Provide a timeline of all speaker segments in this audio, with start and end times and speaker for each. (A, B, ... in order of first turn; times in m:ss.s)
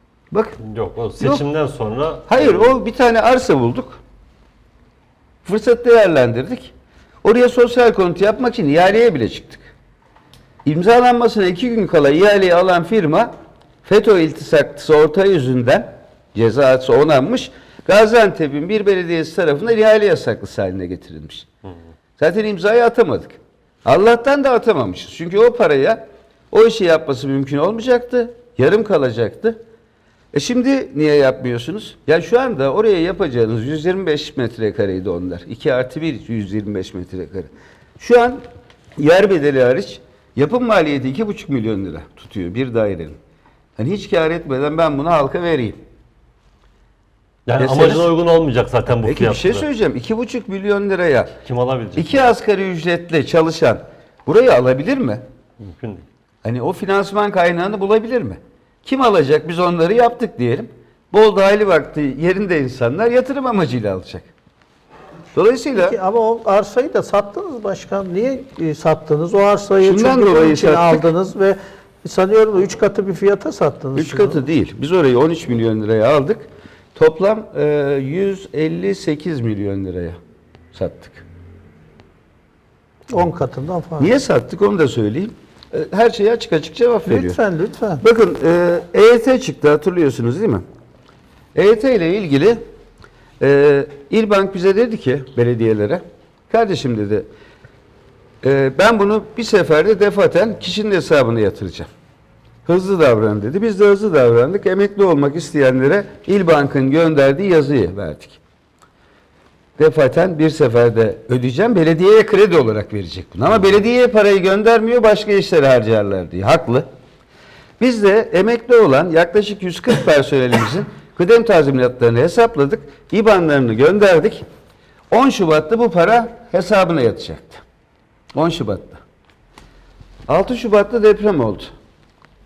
0:00.3-0:00.6 A
0:00.6-0:02.8 B
0:01.2-0:01.4 A
0:02.3-0:04.0 A
0:05.4-0:06.7 A
0:07.2-0:09.6 A
0:10.6-0:13.3 A
0:13.8-0:21.5 A
0:22.2-0:29.6 A
0:30.3-0:38.4 A
0:39.0-0:43.2 A
0:43.8-0:45.8 A
0:47.5-0:49.6 B
0:47.6-0:48.1 A
0:49.0-0:51.4 A
0:51.4-0:52.3 B
0:52.0-0:55.2 A
0:55.6-0:56.0 B
0:56.4-1:04.3 A
1:05.3-1:06.0 A
1:05.7-1:14.4 C
1:09.8-1:11.1 A
1:14.0-1:20.2 A
1:20.7-1:21.2 A
1:23.1-1:24.1 C
1:24.0-1:27.4 A
1:27.1-1:28.0 C
1:28.0-1:30.6 A
1:31.5-1:32.6 A
1:33.4-1:37.2 A
1:38.4-1:41.9 A
1:42.6-1:48.4 A
1:49.8-1:56.8 A
1:57.8-2:04.4 A
2:05.1-2:07.6 A
2:08.3-2:09.0 A
2:10.3-2:11.7 A